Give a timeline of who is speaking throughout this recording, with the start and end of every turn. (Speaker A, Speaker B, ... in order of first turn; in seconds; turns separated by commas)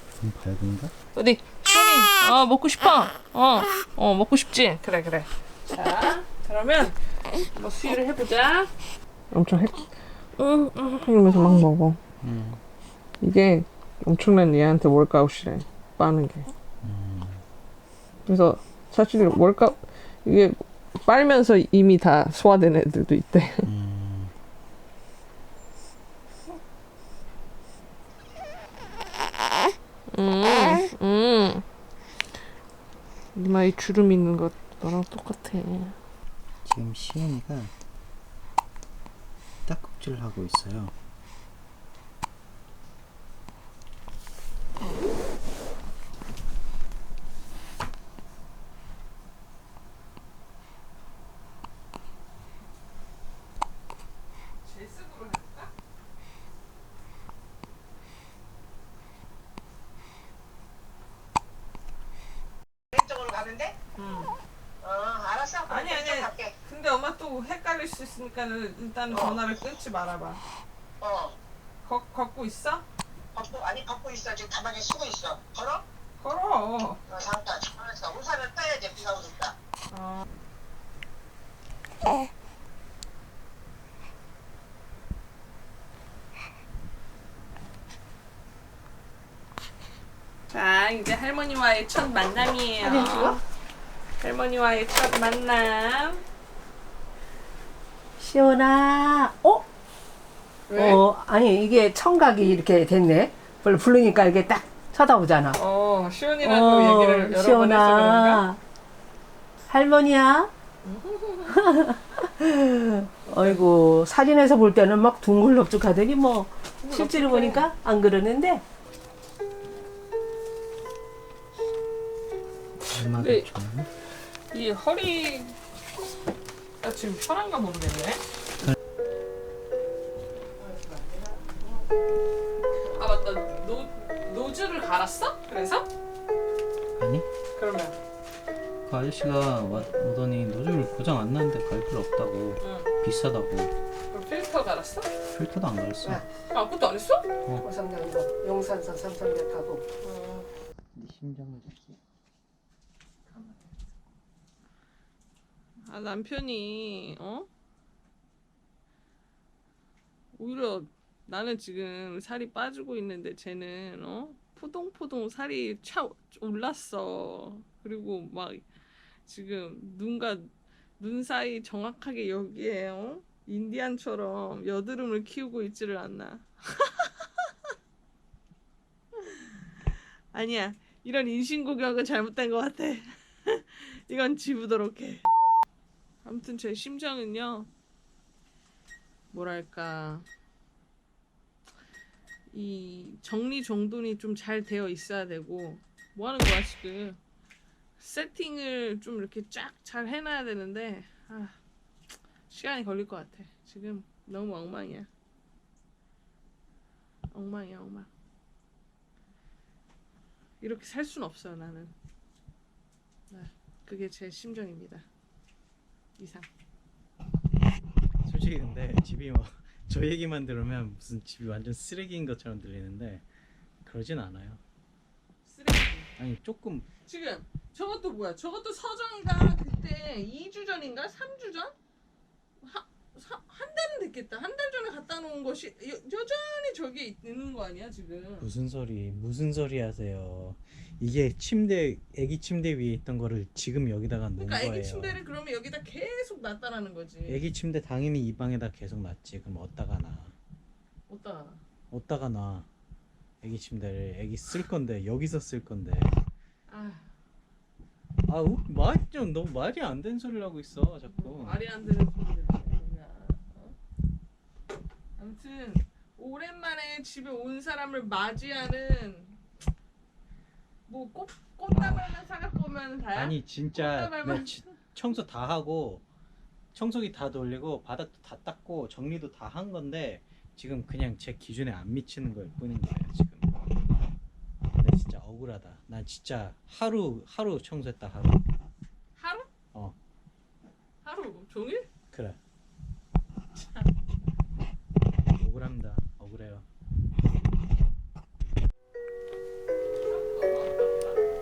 Speaker A: 0.2-0.9, Speaker B: 1.1-7.0, Speaker B: 7.5-8.7, Speaker B: 9.3-12.0, Speaker A: 12.2-12.6, Speaker B: 13.2-16.5, Speaker A: 16.8-17.4, Speaker B: 18.3-23.7, Speaker A: 23.7-24.3, Speaker B: 30.1-31.6, Speaker B: 33.4-36.0, Speaker A: 36.7-37.7, Speaker A: 39.7-40.9, Speaker B: 54.6-55.7, Speaker C: 62.9-63.8, Speaker B: 64.0-64.3, Speaker C: 64.8-66.5, Speaker B: 65.7-70.4, Speaker C: 69.1-69.4, Speaker C: 71.0-71.4, Speaker B: 71.8-72.9, Speaker C: 73.3-75.8, Speaker B: 76.2-77.0, Speaker C: 77.1-79.5, Speaker B: 79.9-80.2, Speaker B: 90.5-93.4, Speaker D: 92.8-93.4, Speaker B: 94.2-96.2, Speaker D: 98.2-99.6, Speaker B: 100.7-101.0, Speaker D: 100.7-105.6, Speaker B: 105.5-108.4, Speaker D: 106.4-108.6, Speaker D: 109.7-110.5, Speaker B: 110.8-111.5, Speaker D: 111.5-118.6, Speaker B: 113.3-113.6, Speaker B: 116.9-117.7, Speaker A: 122.9-123.9, Speaker B: 123.1-123.5, Speaker B: 124.5-125.6, Speaker B: 126.8-128.3, Speaker B: 132.9-135.9, Speaker A: 137.0-137.3, Speaker B: 137.6-138.0, Speaker A: 138.9-143.7, Speaker B: 142.6-142.9, Speaker B: 144.1-145.1, Speaker A: 145.3-146.2, Speaker B: 146.5-147.3, Speaker D: 147.6-149.8, Speaker B: 150.0-150.5, Speaker A: 151.0-152.0, Speaker B: 153.3-153.7, Speaker B: 155.9-157.5, Speaker B: 160.3-168.7, Speaker B: 169.3-177.1, Speaker B: 179.2-179.6, Speaker B: 180.3-185.2, Speaker B: 186.2-187.7, Speaker B: 189.3-190.3, Speaker B: 192.5-197.2, Speaker B: 198.0-201.6, Speaker B: 202.5-205.1, Speaker B: 207.3-208.1, Speaker B: 210.6-211.9, Speaker B: 213.3-215.1, Speaker B: 216.2-216.5, Speaker A: 218.2-223.2, Speaker A: 223.9-224.6, Speaker B: 225.4-226.1, Speaker A: 226.2-226.9, Speaker B: 227.0-231.7, Speaker B: 232.6-238.5, Speaker A: 238.4-245.2, Speaker B: 244.4-247.5, Speaker A: 247.3-250.3, Speaker B: 251.1-251.6, Speaker A: 251.9-252.7, Speaker A: 253.4-256.1, Speaker B: 256.7-257.1, Speaker A: 258.3-261.6, Speaker B: 261.1-263.8, Speaker B: 265.2-269.4, Speaker B: 270.9-274.7, Speaker A: 273.1-276.0, Speaker A: 276.8-283.5, Speaker A: 284.8-288.4, Speaker B: 289.2-289.5, Speaker B: 291.0-291.9, Speaker B: 293.6-293.9, Speaker A: 295.4-296.6, Speaker B: 300.0-301.2